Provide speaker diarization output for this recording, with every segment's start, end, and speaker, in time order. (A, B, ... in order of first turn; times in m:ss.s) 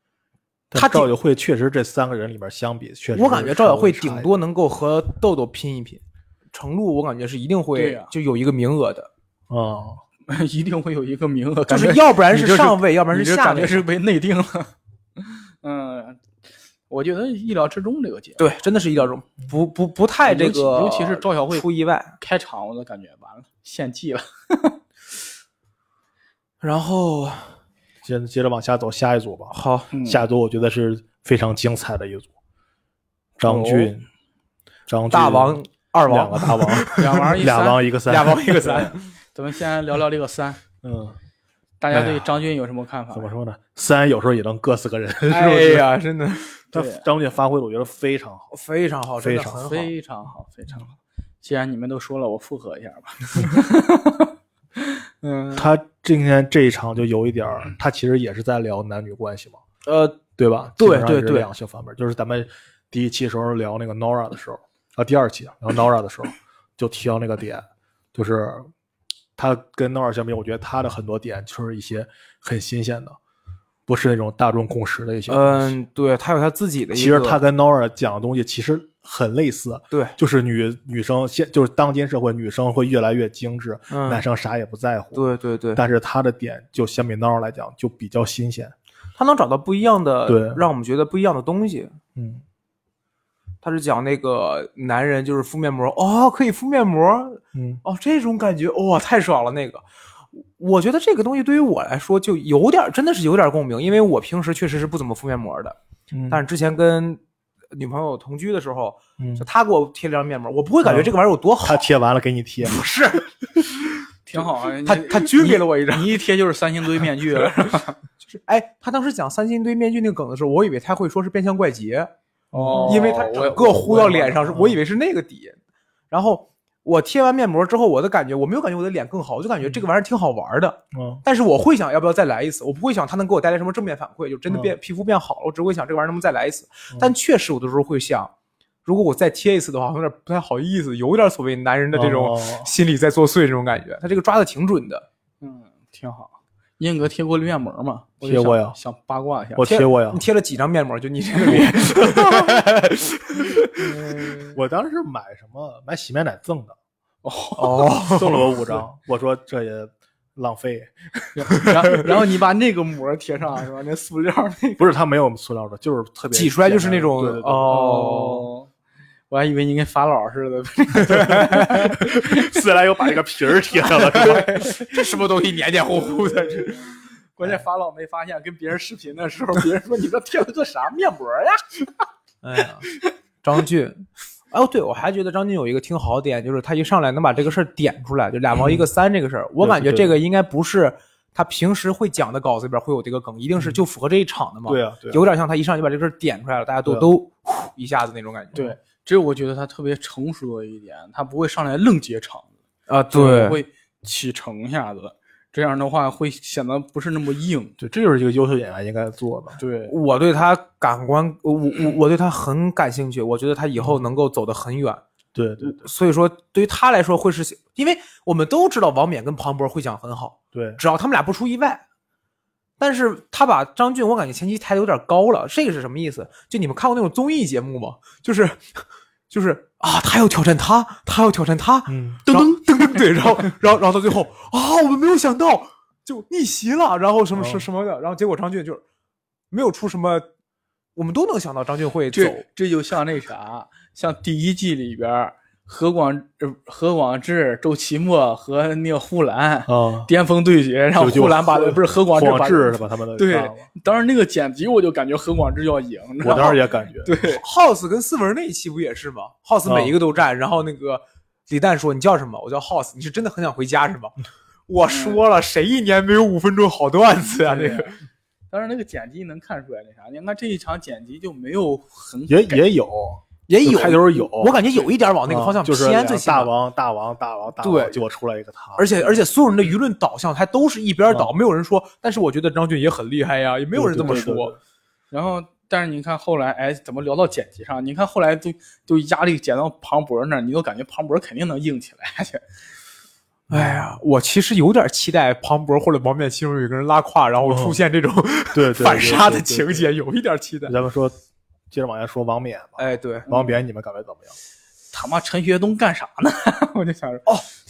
0:00.7-0:04.3 A
0:00.7-0:01.1 B
0:03.1-0:06.0 B
0:06.5-0:09.1 B
0:07.7-0:08.1 C
0:09.5-0:10.0 A
0:10.3-0:16.2 C
0:11.7-0:13.8 B
0:16.9-0:19.0 C
0:18.4-0:22.2 B
0:20.2-0:21.6 C
0:22.2-0:24.8 C
0:26.6-0:27.6 B
0:28.0-0:32.3 A
0:29.5-0:29.9 B
0:29.9-0:30.2 C
0:33.4-0:34.0 A
0:33.4-0:33.9 C
0:34.9-0:38.6 A
0:35.1-0:37.3 B
0:36.9-0:37.8 C
0:38.0-0:39.1 B
0:38.6-0:40.6 C
0:40.8-0:41.2 A
0:41.8-0:43.3 C
0:41.9-0:42.3 A
0:43.1-0:45.9 A
0:45.3-0:46.6 B
0:46.7-0:48.5 A
0:46.7-0:47.0 C
0:48.5-0:49.9 B
0:49.2-0:49.6 A
0:49.6-0:55.6 C
0:55.6-0:59.6 A
0:59.8-1:00.2 B
1:00.4-1:08.7 A
1:00.8-1:01.5 B
1:09.4-1:13.2 A
1:13.9-1:15.7 A
1:15.3-1:17.4 B
1:16.9-1:28.7 A
1:19.9-1:20.2 B
1:23.9-1:24.2 B
1:25.1-1:25.8 B
1:29.2-1:31.9 B
1:30.2-1:30.6 A
1:32.2-1:32.4 A
1:33.6-1:39.8 B
1:37.5-1:37.8 A
1:40.6-1:45.8 B
1:46.1-1:46.4 A
1:46.3-1:47.2 B
1:47.7-1:51.9 B
1:49.2-1:49.4 A
1:50.8-1:52.8 A
1:52.6-1:53.3 B
1:54.2-1:58.0 C
1:54.3-1:56.1 B
1:58.2-2:02.1 B
2:02.5-2:03.1 A
2:02.5-2:04.4 C
2:02.8-2:05.6 B
2:04.5-2:04.8 A
2:06.1-2:18.3 B
2:10.9-2:11.2 A
2:14.5-2:14.7 A
2:18.8-2:25.0 B
2:21.9-2:22.7 A
2:25.4-2:29.8 C
2:28.2-2:28.8 A
2:29.6-2:30.2 A
2:29.6-2:34.5 B
2:31.4-2:32.5 A
2:34.5-2:36.8 A
2:37.2-2:38.5 C
2:37.6-2:38.4 B
2:38.1-2:40.9 A
2:41.3-2:44.8 C
2:44.8-2:47.7 A
2:46.3-2:48.4 B
2:47.7-2:48.7 C
2:49.3-2:52.6 C
2:51.1-2:51.6 B
2:52.0-2:54.6 A
2:53.9-2:55.2 C
2:54.1-2:57.0 B
2:56.0-2:56.8 C
2:57.4-3:02.0 C
3:02.4-3:18.7 B
3:08.6-3:08.9 A
3:09.6-3:10.2 A
3:14.6-3:15.2 A
3:18.5-3:22.5 C
3:22.9-3:23.6 B
3:23.1-3:27.8 C
3:27.8-3:29.6 A
3:29.6-3:29.9 C
3:29.9-3:35.0 B
3:33.8-3:34.0 A
3:35.3-3:35.9 A
3:35.6-3:41.8 B
3:40.5-3:40.8 A
3:42.8-3:58.8 B
3:51.9-3:52.3 A
3:52.3-3:53.0 C
3:57.3-3:57.7 A
3:59.5-4:00.2 B
4:01.0-4:02.4 B
4:02.1-4:17.4 C
4:09.7-4:10.1 A
4:11.0-4:13.7 A
4:16.2-4:17.1 A
4:17.2-4:24.1 B
4:19.6-4:20.0 A
4:24.7-4:28.0 B
4:24.9-4:25.2 C
4:27.4-4:28.0 C
4:28.5-4:32.6 C
4:32.3-4:34.6 A
4:33.5-4:36.5 B
4:35.3-4:38.9 A
4:37.6-4:38.0 B
4:38.8-4:44.5 B
4:43.7-4:44.6 A
4:44.0-4:44.3 C
4:45.1-4:52.4 C
4:53.5-4:53.9 A
4:53.5-5:00.7 B
4:57.4-4:57.8 A
4:58.5-4:59.9 A
5:00.6-5:01.1 A
5:01.7-5:04.3 A
5:02.8-5:03.3 B
5:03.3-5:03.6 C
5:04.9-5:07.2 C